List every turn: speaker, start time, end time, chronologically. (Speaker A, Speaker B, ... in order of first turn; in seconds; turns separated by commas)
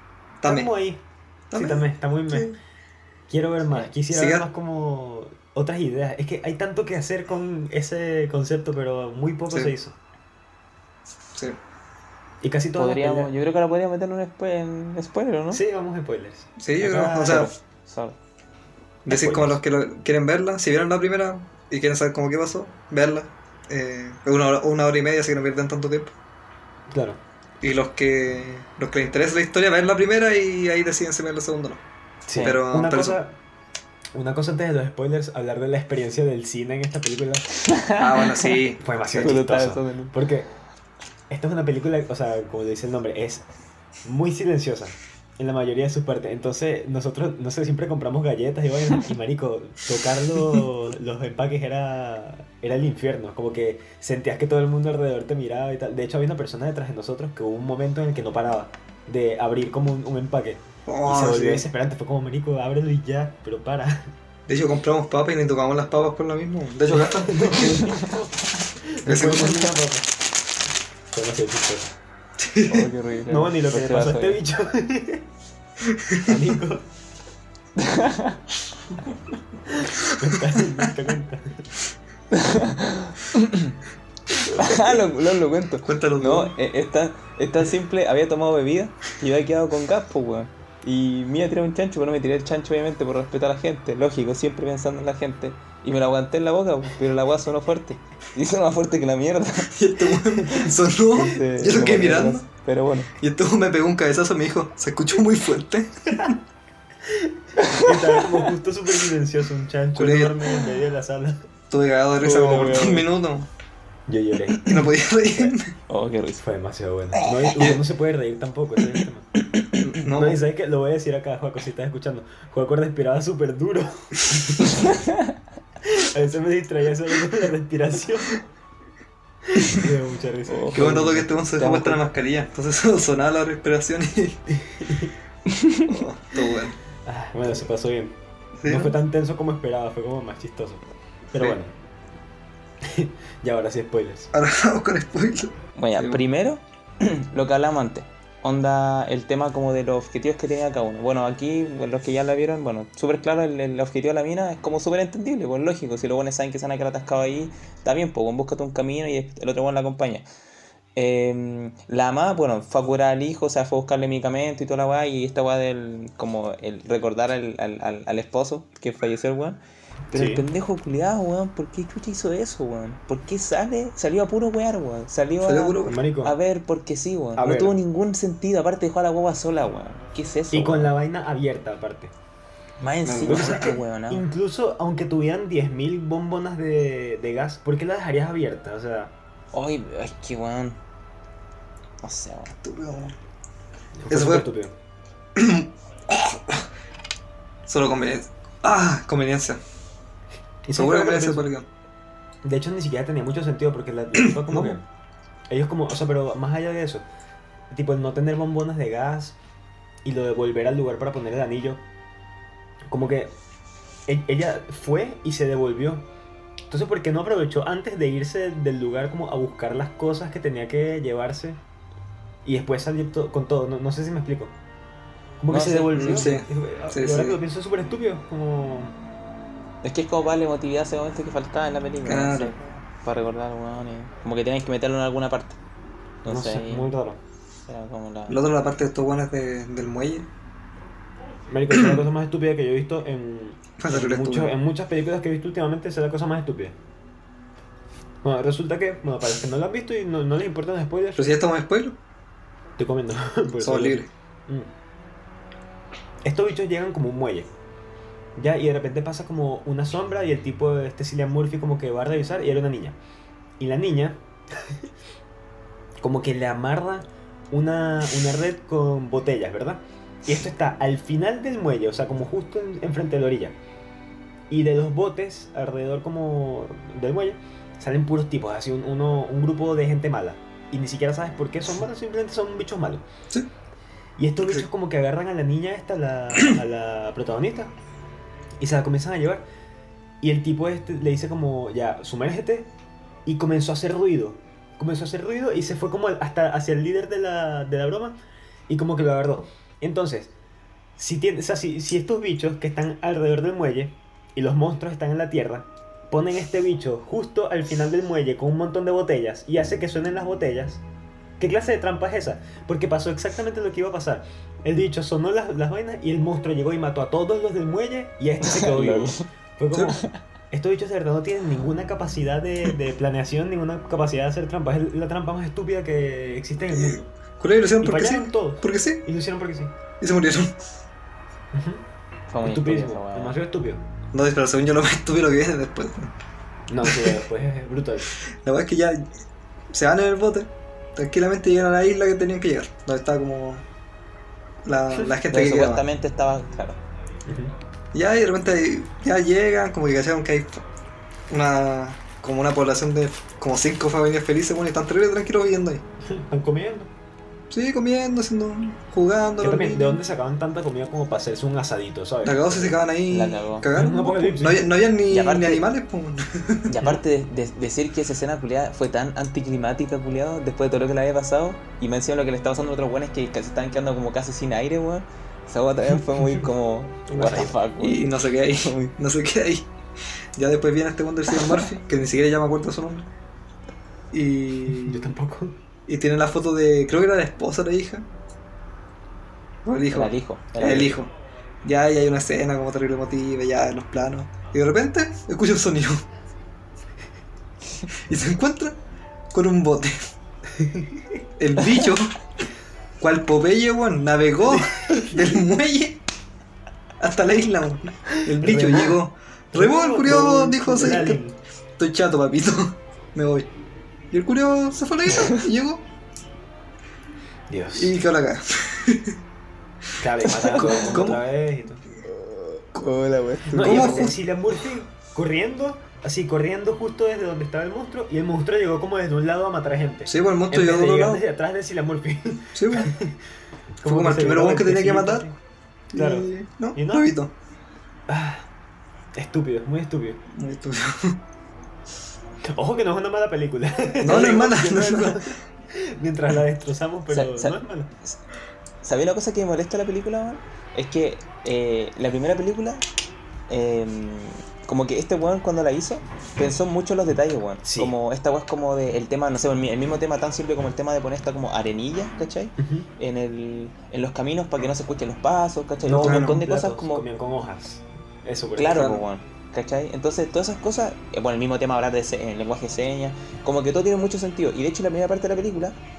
Speaker A: 0.4-0.7, Speaker B: 0.4-1.0, Speaker A: 1.5-2.6, Speaker B: 1.6-2.5, Speaker B: 3.3-10.0, Speaker A: 4.1-4.5, Speaker B: 12.4-13.3, Speaker C: 12.7-15.6, Speaker B: 15.5-17.5, Speaker A: 16.6-17.5, Speaker C: 17.2-18.1, Speaker A: 19.1-26.1, Speaker B: 19.1-19.6, Speaker B: 26.9-27.2, Speaker A: 27.6-31.8, Speaker B: 32.2-33.4, Speaker C: 32.3-32.6, Speaker A: 32.4-33.2, Speaker B: 34.1-37.7, Speaker C: 37.7-38.5, Speaker A: 38.0-39.4, Speaker B: 38.8-40.5, Speaker C: 39.2-40.1, Speaker B: 41.3-43.4, Speaker B: 44.0-64.1, Speaker A: 60.9-61.6, Speaker A: 64.5-68.0, Speaker B: 66.9-70.1, Speaker A: 69.0-69.7, Speaker B: 71.1-71.9, Speaker A: 72.4-72.9, Speaker C: 72.7-74.4, Speaker B: 73.3-75.2, Speaker A: 76.1-76.3, Speaker B: 76.2-76.8, Speaker C: 77.8-78.4, Speaker B: 79.7-81.6, Speaker C: 82.3-83.7, Speaker B: 84.4-85.0, Speaker C: 84.6-99.7, Speaker A: 85.8-86.5, Speaker A: 99.7-102.4, Speaker B: 100.4-100.7, Speaker C: 101.2-103.1, Speaker A: 103.2-106.3, Speaker C: 107.6-108.5, Speaker B: 107.7-111.4, Speaker A: 109.9-110.4, Speaker A: 111.7-113.5, Speaker C: 112.2-113.1, Speaker B: 114.1-115.5, Speaker A: 114.7-115.7, Speaker C: 115.9-116.4, Speaker B: 116.4-119.3, Speaker A: 117.5-117.8, Speaker A: 119.8-120.4, Speaker B: 120.1-125.0, Speaker B: 126.0-128.4, Speaker B: 129.5-131.3, Speaker C: 130.5-131.0, Speaker A: 130.7-134.4, Speaker C: 131.5-132.0, Speaker B: 134.5-135.1, Speaker C: 135.6-135.8, Speaker A: 135.9-136.8, Speaker B: 137.1-141.7, Speaker A: 138.6-138.9, Speaker B: 142.9-144.3, Speaker A: 144.3-146.2, Speaker C: 145.8-160.2, Speaker C: 160.9-169.6, Speaker C: 170.1-180.9, Speaker B: 170.1-170.4, Speaker A: 175.4-176.0, Speaker B: 175.8-176.4, Speaker B: 177.4-177.8, Speaker B: 180.5-182.1, Speaker C: 182.8-184.2, Speaker A: 183.0-183.7, Speaker B: 183.2-189.1, Speaker C: 189.5-190.8, Speaker C: 192.0-192.5, Speaker A: 192.6-193.1, Speaker B: 194.0-194.7, Speaker A: 194.1-194.5, Speaker A: 195.3-196.6, Speaker A: 197.7-199.6, Speaker B: 200.6-201.5, Speaker A: 200.7-201.7, Speaker B: 202.4-204.8, Speaker A: 204.5-204.8, Speaker B: 205.5-207.0, Speaker B: 207.7-209.3, Speaker B: 210.0-211.8, Speaker B: 212.9-213.3, Speaker B: 214.1-216.0, Speaker B: 216.7-221.6, Speaker B: 222.4-224.5, Speaker B: 225.4-228.9, Speaker C: 225.5-226.3, Speaker A: 225.9-227.4, Speaker C: 229.8-235.6, Speaker A: 232.0-232.6, Speaker C: 236.2-236.9, Speaker B: 236.2-237.2, Speaker C: 237.7-238.4, Speaker A: 238.3-240.3, Speaker B: 241.5-246.8, Speaker A: 241.7-242.0, Speaker A: 243.8-244.5, Speaker B: 248.2-251.3, Speaker A: 251.2-251.9, Speaker B: 252.8-254.7, Speaker A: 253.6-254.1, Speaker B: 256.2-257.5, Speaker B: 258.4-263.0, Speaker B: 263.6-264.2, Speaker B: 266.0-273.6, Speaker B: 274.5-283.0, Speaker B: 284.2-287.7, Speaker B: 288.6-289.4, Speaker B: 290.2-292.7, Speaker B: 293.2-298.2, Speaker B: 298.7-300.3, Speaker B: 301.0-310.8, Speaker B: 311.4-327.1, Speaker C: 318.4-319.2, Speaker C: 319.7-320.1, Speaker A: 326.7-329.0, Speaker B: 327.8-329.7, Speaker A: 330.0-330.5, Speaker B: 331.5-331.8, Speaker C: 332.3-333.4, Speaker B: 332.4-333.8, Speaker A: 334.1-336.1, Speaker B: 336.7-338.1, Speaker A: 336.8-337.2, Speaker A: 338.4-339.0, Speaker A: 339.7-343.6, Speaker A: 344.6-345.8, Speaker C: 345.3-346.8, Speaker B: 347.3-347.5, Speaker A: 347.9-350.6, Speaker A: 351.3-355.8, Speaker B: 356.1-356.9, Speaker A: 357.5-360.0, Speaker B: 359.4-362.8, Speaker A: 362.2-366.8, Speaker C: 363.1-363.7, Speaker B: 363.7-364.7, Speaker C: 365.1-365.7, Speaker C: 366.7-378.9, Speaker B: 377.1-377.6, Speaker A: 377.8-379.7, Speaker A: 380.4-383.1, Speaker A: 384.1-385.0, Speaker B: 384.8-385.6, Speaker A: 385.9-388.0, Speaker A: 389.6-391.1, Speaker C: 389.9-391.0, Speaker A: 391.6-396.0, Speaker A: 398.1-398.8, Speaker A: 399.3-400.1, Speaker B: 400.6-401.1, Speaker A: 401.4-402.1, Speaker A: 403.0-406.0, Speaker B: 404.5-405.2, Speaker A: 407.0-411.2, Speaker B: 408.3-408.9, Speaker B: 409.5-411.4, Speaker A: 411.8-413.5, Speaker A: 414.1-415.8, Speaker B: 417.5-418.0, Speaker A: 417.7-419.1, Speaker B: 420.0-421.8, Speaker C: 420.3-421.0, Speaker A: 420.6-421.2, Speaker C: 422.0-424.1, Speaker B: 423.5-433.2, Speaker A: 423.5-424.1, Speaker A: 430.1-431.2, Speaker A: 432.5-432.9, Speaker B: 433.8-435.4, Speaker A: 433.9-435.3, Speaker A: 435.9-437.3, Speaker B: 435.9-437.1, Speaker B: 438.1-438.4, Speaker B: 439.2-440.2, Speaker A: 440.3-441.2, Speaker B: 442.4-447.9, Speaker A: 444.0-445.2, Speaker C: 447.1-448.2, Speaker C: 448.8-452.8, Speaker C: 453.5-467.1, Speaker B: 457.6-457.9, Speaker B: 462.6-462.9, Speaker B: 465.8-468.9, Speaker A: 465.9-466.4, Speaker C: 468.6-475.8, Speaker A: 468.6-469.0